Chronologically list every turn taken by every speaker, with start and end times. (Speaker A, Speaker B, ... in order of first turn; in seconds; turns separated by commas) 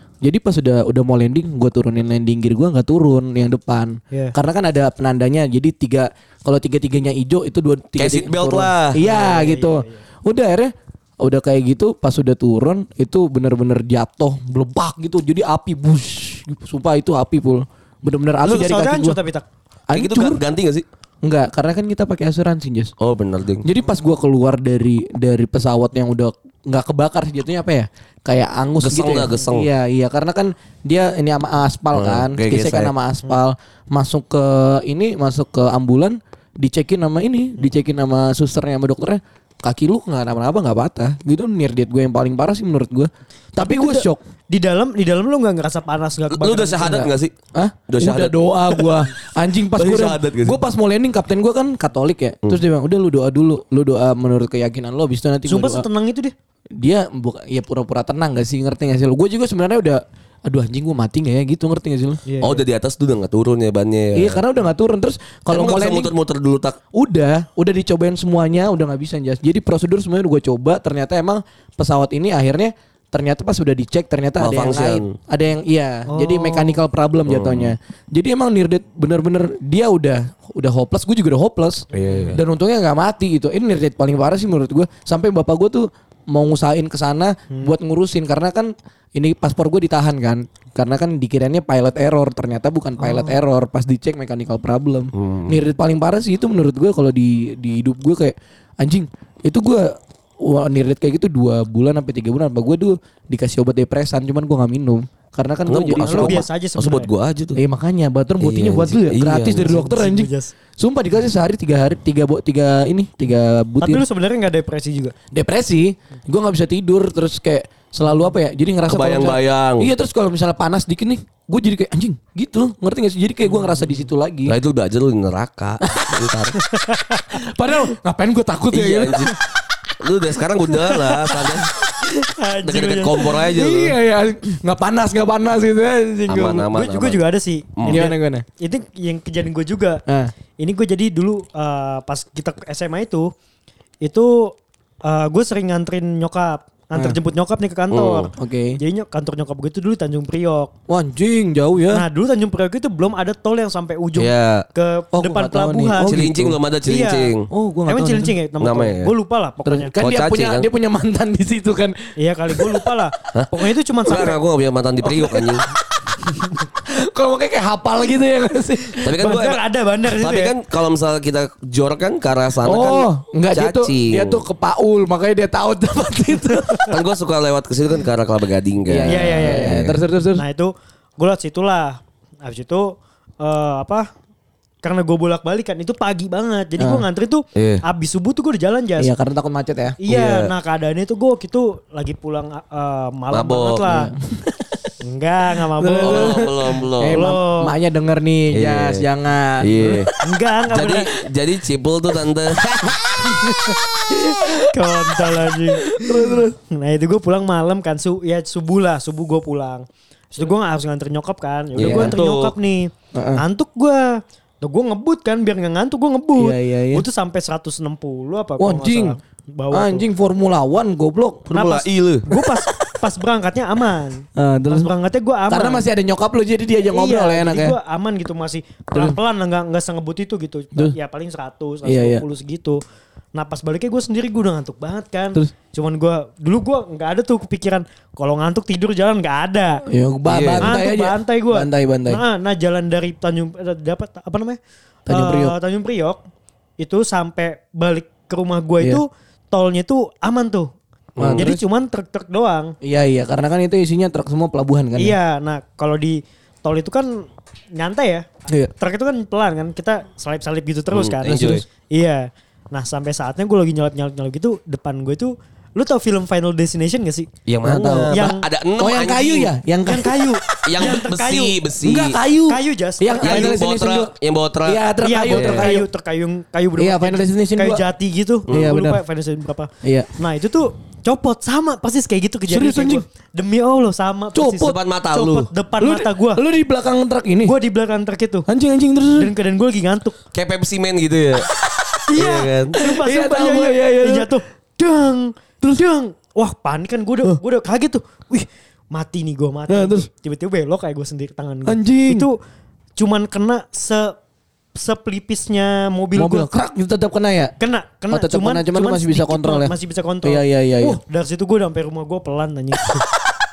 Speaker A: 0.2-19.2, Speaker B: 8.0-9.0, Speaker C: 9.0-10.0, Speaker C: 18.4-19.4, Speaker A: 19.9-20.4, Speaker B: 19.9-20.9, Speaker A: 21.2-22.9, Speaker B: 23.0-23.7, Speaker A: 23.6-44.2, Speaker B: 28.8-29.7, Speaker B: 31.9-32.9, Speaker C: 43.6-47.1, Speaker B: 46.3-47.3, Speaker A: 47.5-55.9, Speaker B: 47.9-49.0, Speaker B: 49.8-50.6, Speaker C: 55.5-56.3, Speaker A: 56.8-62.2, Speaker C: 62.3-62.6, Speaker B: 62.4-64.4, Speaker A: 64.2-66.1, Speaker B: 65.5-66.8, Speaker A: 66.9-106.5, Speaker B: 74.4-75.2, Speaker C: 76.1-76.8, Speaker B: 77.3-77.8, Speaker B: 81.9-82.4, Speaker C: 82.0-82.3, Speaker C: 93.0-93.4, Speaker B: 95.2-95.6, Speaker B: 105.7-107.6, Speaker C: 106.0-107.1, Speaker A: 107.6-114.0, Speaker B: 108.4-109.8, Speaker C: 109.5-110.5, Speaker C: 113.8-115.1, Speaker A: 115.3-124.5, Speaker B: 118.9-119.9, Speaker C: 123.6-123.9, Speaker B: 124.5-126.6, Speaker A: 125.8-126.1, Speaker C: 126.7-127.4, Speaker A: 127.3-129.3, Speaker B: 128.7-129.4, Speaker B: 130.0-131.7, Speaker C: 132.2-133.5, Speaker B: 132.6-134.0, Speaker A: 133.5-136.7, Speaker B: 136.3-137.2, Speaker C: 136.6-140.0, Speaker B: 137.8-138.1, Speaker A: 137.9-138.4, Speaker C: 140.6-143.3, Speaker C: 144.0-150.7, Speaker B: 147.9-148.3, Speaker A: 148.4-148.8, Speaker A: 150.9-152.0, Speaker C: 151.9-156.2, Speaker B: 154.2-154.7, Speaker A: 155.1-156.6, Speaker B: 156.0-157.5, Speaker C: 156.9-157.3, Speaker A: 157.5-158.3, Speaker C: 157.9-159.9, Speaker B: 158.6-159.1, Speaker A: 159.7-162.0, Speaker B: 160.0-160.7, Speaker C: 162.2-164.4, Speaker A: 162.5-162.9, Speaker B: 164.1-165.7, Speaker A: 165.0-165.6, Speaker A: 166.9-169.1, Speaker B: 169.0-169.6, Speaker C: 169.2-170.5, Speaker B: 170.1-174.4, Speaker A: 172.7-176.9, Speaker B: 176.9-180.0, Speaker A: 178.9-180.4, Speaker C: 179.1-179.8, Speaker C: 180.3-184.1, Speaker C: 184.8-189.1, Speaker A: 186.8-187.0, Speaker B: 187.6-187.8, Speaker A: 189.0-190.0, Speaker C: 190.0-194.1, Speaker B: 190.1-190.5, Speaker B: 193.3-193.8, Speaker A: 193.9-194.9, Speaker C: 195.0-196.6, Speaker A: 195.8-200.2, Speaker B: 196.0-197.2, Speaker C: 197.1-197.7, Speaker B: 198.5-199.1, Speaker B: 199.6-200.1, Speaker C: 200.2-201.1, Speaker B: 200.7-202.9, Speaker A: 202.6-206.5, Speaker C: 203.3-203.7, Speaker C: 204.6-220.1, Speaker B: 211.7-212.5, Speaker A: 211.8-212.1, Speaker A: 213.2-213.4, Speaker A: 216.4-217.0, Speaker A: 218.6-219.2, Speaker A: 219.7-221.5, Speaker B: 221.5-222.2, Speaker C: 221.5-225.8, Speaker A: 222.3-222.9, Speaker A: 224.4-224.9, Speaker A: 225.5-227.8, Speaker C: 226.9-232.8, Speaker A: 231.8-232.2, Speaker C: 233.3-239.8, Speaker A: 239.9-242.2, Speaker B: 240.3-240.8, Speaker C: 240.6-246.2, Speaker A: 245.1-245.6, Speaker C: 246.8-250.7, Speaker B: 251.2-251.5, Speaker A: 251.2-251.6, Speaker C: 251.3-252.8, Speaker A: 252.8-255.2, Speaker C: 255.0-267.3, Speaker B: 260.9-261.6, Speaker B: 267.5-269.5, Speaker A: 267.6-270.6, Speaker C: 268.1-268.4, Speaker C: 269.9-271.6, Speaker B: 270.7-272.2, Speaker A: 271.8-274.1, Speaker C: 272.5-273.6, Speaker B: 273.2-275.7, Speaker A: 274.6-275.9, Speaker C: 275.0-286.4, Speaker A: 276.8-277.8, Speaker A: 278.5-279.0, Speaker A: 279.8-280.1, Speaker A: 282.5-283.0, Speaker A: 284.3-284.7, Speaker B: 284.6-285.5, Speaker A: 285.8-287.5, Speaker C: 287.4-288.5, Speaker A: 288.5-289.3, Speaker C: 289.2-290.2, Speaker B: 290.3-291.5, Speaker C: 292.1-302.4, Speaker B: 292.1-292.8, Speaker A: 292.8-294.3, Speaker A: 295.6-296.0, Speaker A: 299.7-300.1, Speaker A: 301.7-302.3, Speaker C: 303.0-304.1, Speaker C: 304.8-306.5, Speaker A: 306.2-307.6, Speaker C: 307.6-313.1, Speaker A: 308.1-311.0